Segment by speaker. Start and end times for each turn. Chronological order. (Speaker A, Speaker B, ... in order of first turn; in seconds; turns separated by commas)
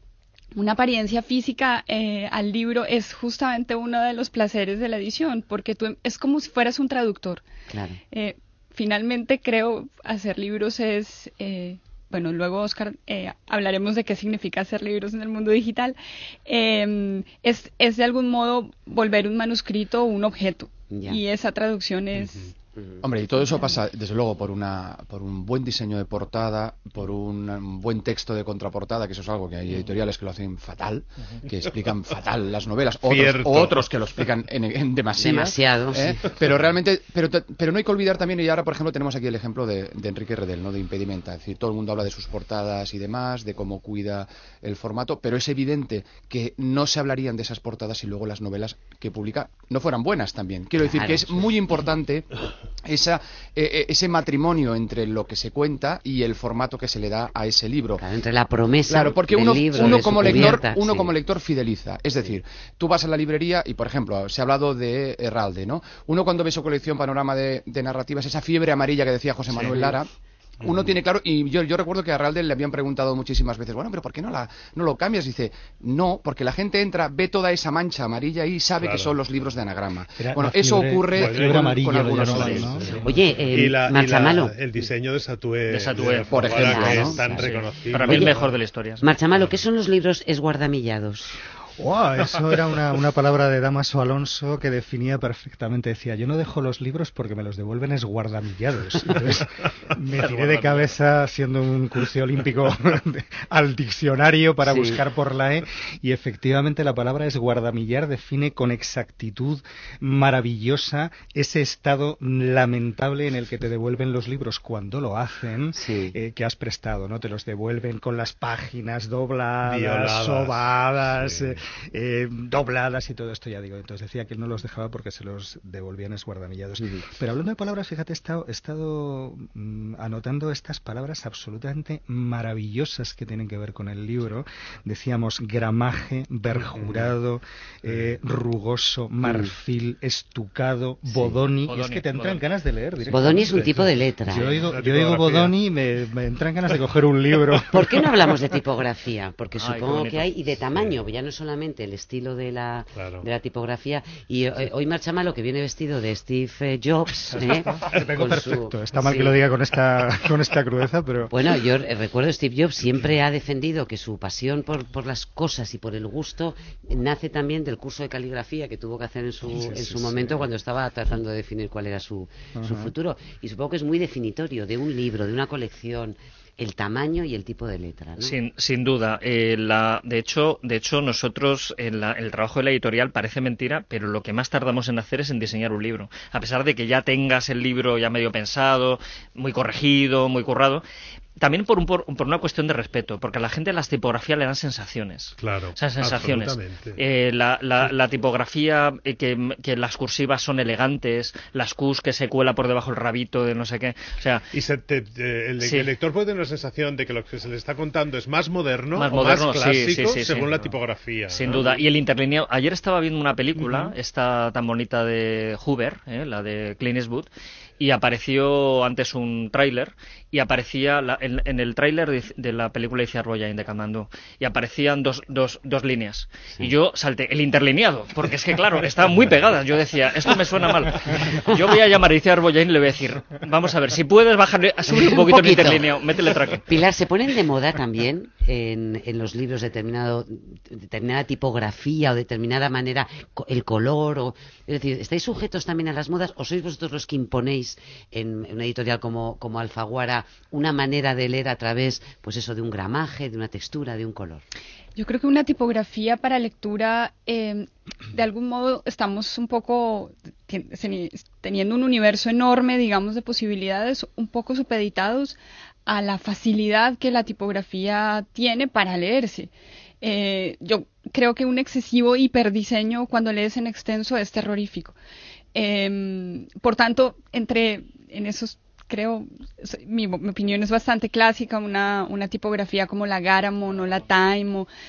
Speaker A: 0.5-7.4, Speaker B: 7.7-8.0, Speaker A: 8.1-22.5, Speaker B: 20.9-21.2, Speaker C: 22.1-22.5, Speaker D: 23.0-58.0, Speaker C: 33.0-33.9, Speaker B: 35.1-36.2, Speaker B: 50.8-51.5, Speaker B: 58.0-61.1, Speaker D: 58.9-70.1, Speaker E: 69.5-69.9, Speaker D: 70.6-83.0, Speaker C: 78.8-79.2, Speaker F: 80.2-83.0, Speaker C: 81.1-88.5, Speaker E: 82.2-82.6, Speaker B: 83.0-84.8, Speaker E: 85.7-89.0, Speaker D: 86.3-87.2, Speaker B: 86.5-88.4, Speaker B: 89.0-91.4, Speaker F: 91.8-148.2, Speaker E: 100.2-100.9, Speaker B: 104.6-105.0, Speaker B: 115.7-116.1, Speaker C: 119.7-121.6, Speaker C: 136.6-137.1, Speaker C: 137.9-138.2, Speaker B: 139.2-139.5, Speaker E: 141.7-142.4, Speaker B: 143.1-144.5, Speaker C: 143.6-143.8, Speaker C: 144.5-145.5, Speaker B: 147.7-159.3, Speaker E: 149.6-150.3, Speaker C: 152.9-153.2, Speaker F: 157.3-161.3, Speaker C: 157.8-158.1, Speaker B: 161.3-178.3, Speaker C: 169.6-170.5, Speaker F: 172.5-172.9, Speaker E: 178.2-190.8, Speaker E: 191.4-204.4, Speaker C: 195.4-197.0, Speaker C: 204.5-211.8, Speaker E: 205.6-205.9, Speaker E: 208.9-210.5, Speaker E: 211.3-236.6, Speaker C: 213.6-213.9, Speaker B: 234.8-254.4, Speaker A: 254.9-269.5, Speaker A: 270.0-274.9, Speaker A: 275.5-284.7